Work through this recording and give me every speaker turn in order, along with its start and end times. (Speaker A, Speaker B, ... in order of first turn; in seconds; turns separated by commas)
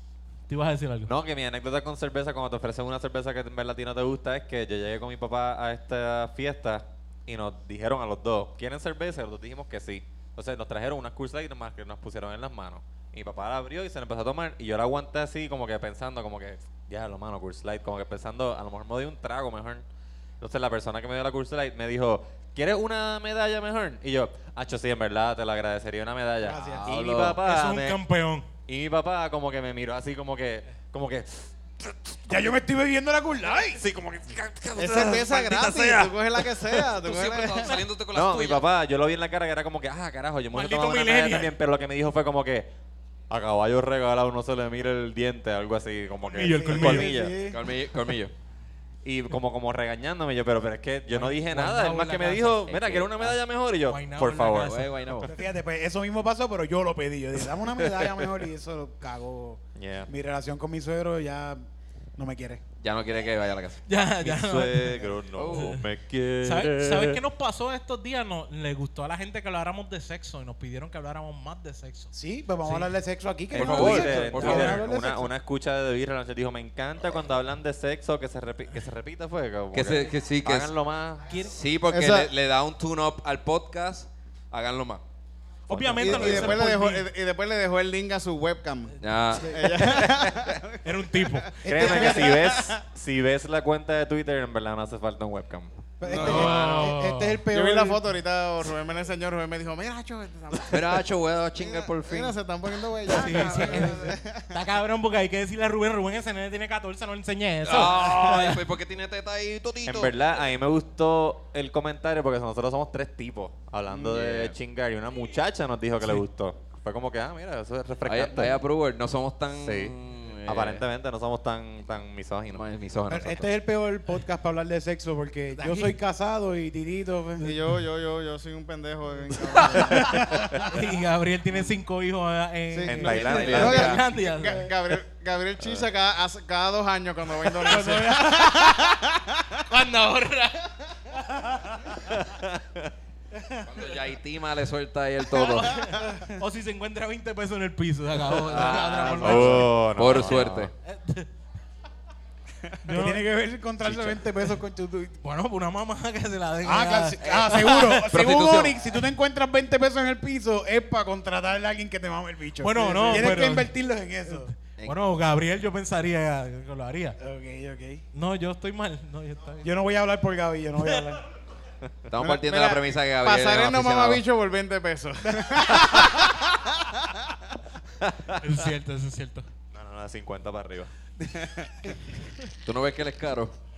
Speaker A: 0.5-1.1, Speaker B: 1.1-19.8, Speaker B: 20.4-28.0, Speaker C: 26.4-26.9, Speaker D: 26.6-27.4, Speaker A: 27.4-28.4, Speaker B: 28.7-32.2, Speaker C: 32.3-33.8, Speaker B: 33.6-36.1, Speaker E: 34.8-37.8, Speaker D: 36.8-38.6, Speaker B: 38.1-42.7, Speaker A: 40.5-41.5, Speaker B: 43.3-47.4, Speaker A: 46.3-47.1, Speaker C: 46.4-47.6, Speaker D: 47.4-48.3, Speaker B: 49.0-55.3, Speaker A: 51.1-52.5, Speaker D: 52.5-53.4, Speaker A: 53.9-54.9, Speaker D: 54.6-55.3, Speaker C: 55.2-61.6, Speaker B: 59.8-60.1, Speaker C: 62.2-62.6, Speaker D: 62.8-63.8, Speaker A: 63.9-65.8, Speaker B: 64.2-67.2, Speaker D: 65.3-65.8, Speaker A: 66.4-72.9, Speaker C: 72.1-75.3, Speaker B: 73.5-81.3, Speaker D: 73.5-74.8, Speaker A: 73.9-74.7, Speaker D: 79.7-80.7, Speaker A: 81.3-81.5, Speaker D: 81.3-85.0, Speaker E: 81.9-82.3, Speaker A: 85.7-87.0, Speaker D: 85.7-86.6, Speaker B: 85.8-86.6, Speaker E: 86.0-91.4, Speaker D: 89.0-89.9, Speaker B: 89.8-90.6, Speaker A: 90.8-92.1, Speaker C: 91.6-92.5, Speaker B: 91.6-95.7, Speaker E: 92.0-92.8, Speaker C: 96.0-98.0, Speaker E: 96.1-96.5, Speaker A: 96.1-97.4, Speaker D: 96.2-96.9, Speaker E: 97.5-104.5, Speaker D: 100.7-102.4, Speaker A: 103.1-108.6, Speaker C: 103.4-104.0, Speaker D: 107.6-110.1, Speaker B: 109.8-118.6, Speaker D: 113.9-114.5, Speaker D: 118.0-120.8, Speaker B: 119.6-122.6, Speaker D: 122.5-123.5, Speaker C: 123.1-127.6, Speaker A: 125.5-126.0, Speaker E: 127.4-130.2, Speaker A: 129.5-134.7, Speaker C: 129.9-130.7, Speaker E: 132.7-139.6, Speaker B: 132.9-134.0, Speaker D: 133.0-134.1, Speaker C: 137.7-138.6, Speaker A: 139.7-140.7, Speaker C: 141.4-141.8, Speaker B: 142.1-142.9, Speaker D: 143.6-145.9, Speaker A: 145.6-151.3, Speaker D: 148.3-150.7, Speaker B: 148.5-150.7, Speaker A: 152.8-153.2, Speaker C: 152.9-155.2, Speaker A: 155.2-158.2, Speaker C: 156.6-164.5, Speaker D: 157.2-158.8, Speaker A: 162.6-163.7, Speaker A: 164.3-167.2, Speaker C: 167.2-168.0, Speaker A: 168.1-169.7, Speaker C: 169.6-171.2, Speaker D: 172.1-174.2, Speaker E: 172.2-177.4, Speaker B: 178.0-178.4, Speaker A: 178.4-179.5, Speaker B: 179.7-180.9, Speaker E: 181.2-181.9, Speaker D: 182.6-183.6